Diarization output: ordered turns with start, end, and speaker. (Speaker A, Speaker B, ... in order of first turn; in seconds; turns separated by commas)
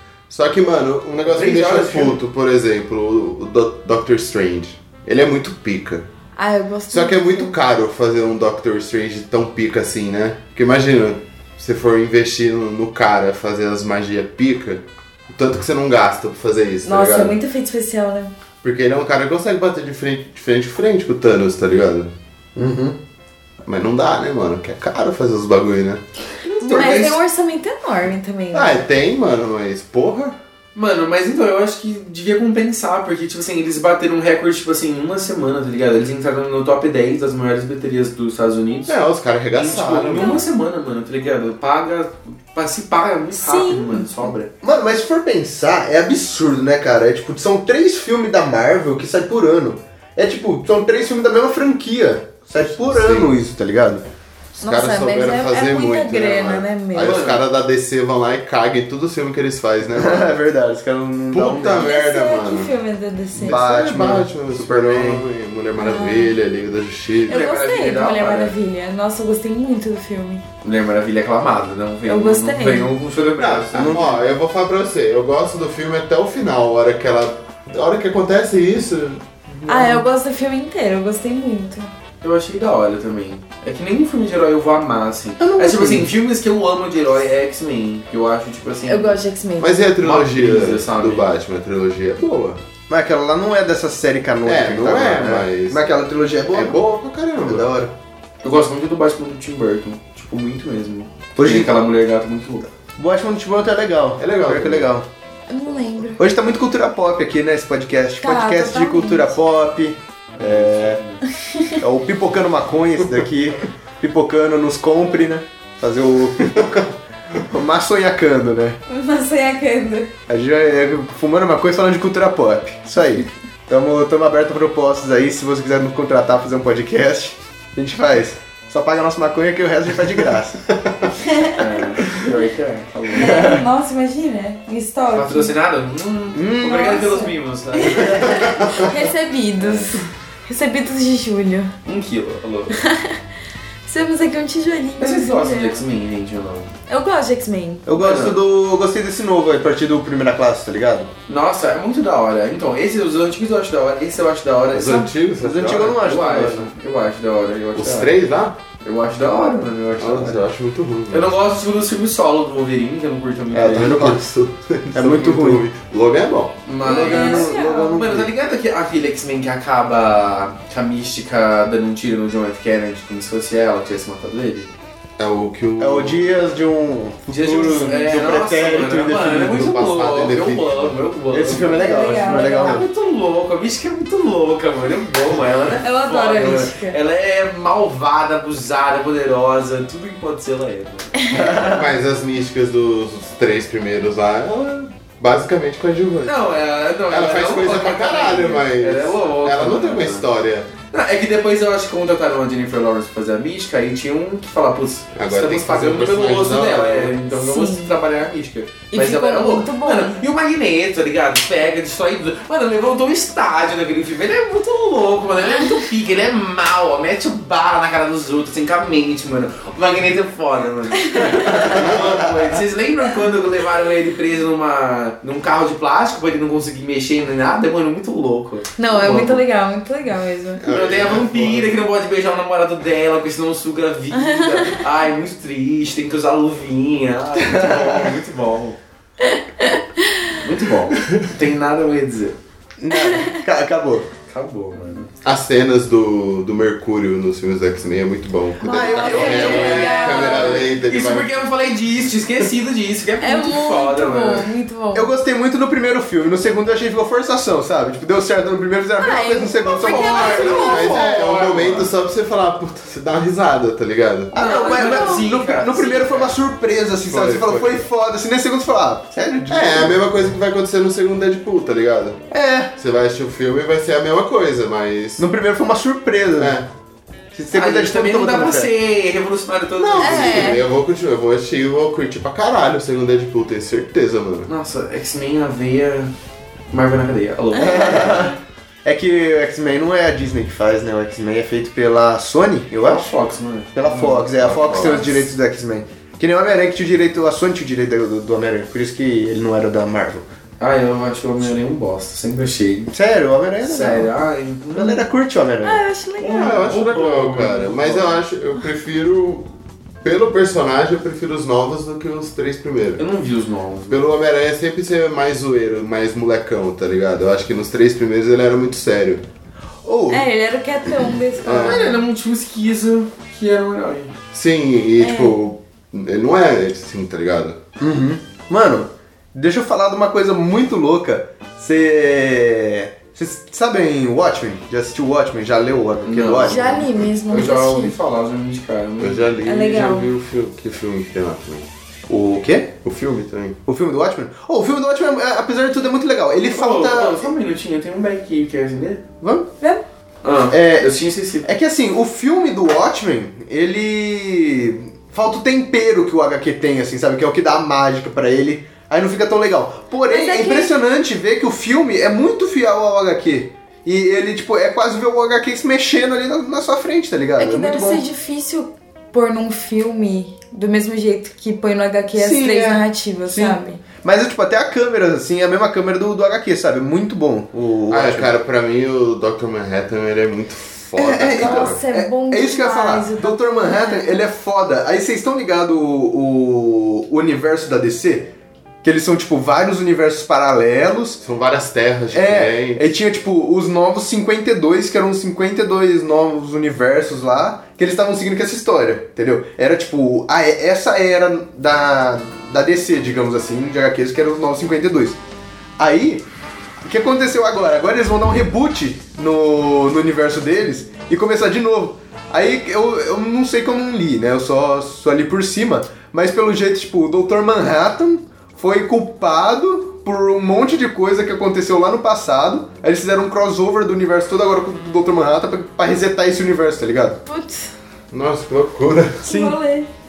Speaker A: 0.3-6.1, Speaker B: 1.2-2.2, Speaker C: 6.4-7.5, Speaker A: 6.9-17.4, Speaker C: 16.8-18.3, Speaker A: 18.6-22.1, Speaker D: 22.6-23.0, Speaker A: 23.6-26.0, Speaker B: 26.5-27.2, Speaker C: 26.6-28.8, Speaker A: 28.5-30.4, Speaker B: 30.8-39.0, Speaker A: 38.9-40.4, Speaker B: 39.5-44.5, Speaker C: 43.4-44.3, Speaker D: 44.6-54.1, Speaker A: 52.6-53.3, Speaker C: 54.6-57.2, Speaker A: 54.6-60.4, Speaker B: 57.0-57.4, Speaker D: 59.9-62.0, Speaker A: 61.3-62.7, Speaker C: 61.8-63.6, Speaker A: 63.4-67.4, Speaker D: 63.5-65.3, Speaker C: 65.8-66.4, Speaker B: 67.3-68.5, Speaker C: 67.3-70.4, Speaker B: 70.6-74.2, Speaker C: 72.1-72.9, Speaker A: 73.4-80.0, Speaker D: 73.7-74.2, Speaker C: 79.7-81.9, Speaker B: 82.2-89.2, Speaker D: 85.4-86.1, Speaker C: 88.9-89.8, Speaker A: 89.6-92.6, Speaker B: 90.0-91.3, Speaker D: 92.9-96.8, Speaker A: 94.5-95.9, Speaker A: 96.5-97.7, Speaker D: 97.4-97.9, Speaker B: 98.4-102.7, Speaker D: 101.4-101.8, Speaker D: 103.0-105.1, Speaker A: 104.2-104.9, Speaker C: 105.5-106.2, Speaker D: 106.2-111.0, Speaker C: 108.2-109.4, Speaker B: 110.4-111.2, Speaker C: 111.5-111.7, Speaker D: 111.8-116.9, Speaker D: 117.4-118.8, Speaker C: 118.9-120.1, Speaker D: 120.3-130.6, Speaker B: 131.6-133.6, Speaker C: 133.2-135.6, Speaker D: 133.2-133.6, Speaker B: 135.1-138.4, Speaker D: 136.3-137.0, Speaker C: 136.7-141.7, Speaker A: 138.4-138.8, Speaker B: 139.6-139.9, Speaker B: 141.8-142.8, Speaker C: 142.8-143.2, Speaker C: 143.8-145.8, Speaker B: 145.0-146.7, Speaker C: 146.9-147.8, Speaker D: 147.9-151.1, Speaker B: 147.9-148.4, Speaker B: 151.3-155.1, Speaker A: 154.7-156.0, Speaker D: 155.4-156.7, Speaker B: 155.8-158.1, Speaker A: 157.8-158.6, Speaker B: 158.8-160.4, Speaker A: 160.0-161.3, Speaker B: 161.1-164.1, Speaker D: 163.5-164.3, Speaker A: 163.7-166.6, Speaker D: 164.9-165.7, Speaker B: 166.7-174.7, Speaker D: 166.8-168.3, Speaker C: 166.8-168.0, Speaker A: 175.2-176.2, Speaker D: 175.8-179.7, Speaker B: 177.3-191.5, Speaker A: 179.4-181.0, Speaker D: 181.3-182.9, Speaker C: 181.8-182.8, Speaker C: 185.8-187.0, Speaker D: 191.3-191.8, Speaker A: 191.5-196.5, Speaker B: 196.3-200.3, Speaker A: 197.1-200.7, Speaker B: 200.9-229.4, Speaker A: 205.2-207.2, Speaker C: 207.3-208.0, Speaker C: 208.9-210.2, Speaker C: 221.1-221.7, Speaker A: 221.7-222.2, Speaker C: 228.8-230.7, Speaker A: 230.6-231.7, Speaker B: 230.7-238.8, Speaker C: 234.2-234.8, Speaker D: 237.4-238.1, Speaker C: 239.4-240.2, Speaker B: 240.3-242.4, Speaker D: 242.8-244.1, Speaker C: 242.9-243.4, Speaker B: 244.3-245.1, Speaker A: 245.2-251.3, Speaker D: 248.6-250.1, Speaker C: 248.6-250.7, Speaker B: 249.0-254.5, Speaker C: 253.2-255.1, Speaker D: 254.9-260.8, Speaker C: 259.0-261.0, Speaker B: 259.8-261.9, Speaker A: 260.7-264.3, Speaker D: 264.3-270.0, Speaker B: 264.3-266.4, Speaker C: 264.4-265.2, Speaker A: 267.1-267.8, Speaker A: 269.5-272.2, Speaker D: 272.3-272.7, Speaker A: 272.8-275.3, Speaker D: 275.2-276.6, Speaker A: 276.4-276.7, Speaker D: 277.3-278.7, Speaker B: 277.5-280.6, Speaker A: 279.8-284.5, Speaker C: 280.0-280.6, Speaker B: 284.5-286.1, Speaker B: 286.7-288.4, Speaker D: 287.6-293.1, Speaker B: 292.8-294.3, Speaker D: 293.8-300.3, Speaker A: 294.4-295.1, Speaker C: 294.8-295.1, Speaker B: 300.6-302.9, Speaker D: 302.9-304.1, Speaker B: 303.6-305.1, Speaker D: 304.7-305.8, Speaker C: 305.6-306.6, Speaker B: 306.2-308.2, Speaker A: 306.3-309.5, Speaker A: 310.0-313.0, Speaker B: 313.0-314.1, Speaker A: 313.9-319.2, Speaker D: 319.8-320.3, Speaker C: 320.1-322.0, Speaker A: 321.4-322.0, Speaker B: 321.6-324.1, Speaker A: 324.3-327.6, Speaker C: 325.0-325.4, Speaker D: 327.8-336.9, Speaker B: 336.0-336.7, Speaker C: 336.4-337.9, Speaker B: 337.3-339.3, Speaker A: 339.0-341.7, Speaker C: 339.4-340.1, Speaker D: 342.1-342.7, Speaker A: 342.8-343.6, Speaker D: 343.7-347.3, Speaker B: 346.5-349.0, Speaker D: 349.2-349.5, Speaker B: 350.2-351.5, Speaker D: 350.5-368.0, Speaker C: 360.1-360.8, Speaker C: 367.4-373.8, Speaker D: 372.1-378.3, Speaker A: 377.9-381.8, Speaker D: 381.0-388.3, Speaker C: 381.3-384.2, Speaker D: 388.8-391.2, Speaker A: 391.2-392.8, Speaker D: 392.1-405.2, Speaker D: 405.8-406.3, Speaker D: 406.8-427.2, Speaker C: 427.3-427.7, Speaker A: 428.1-429.2, Speaker C: 429.2-429.9, Speaker D: 429.2-429.6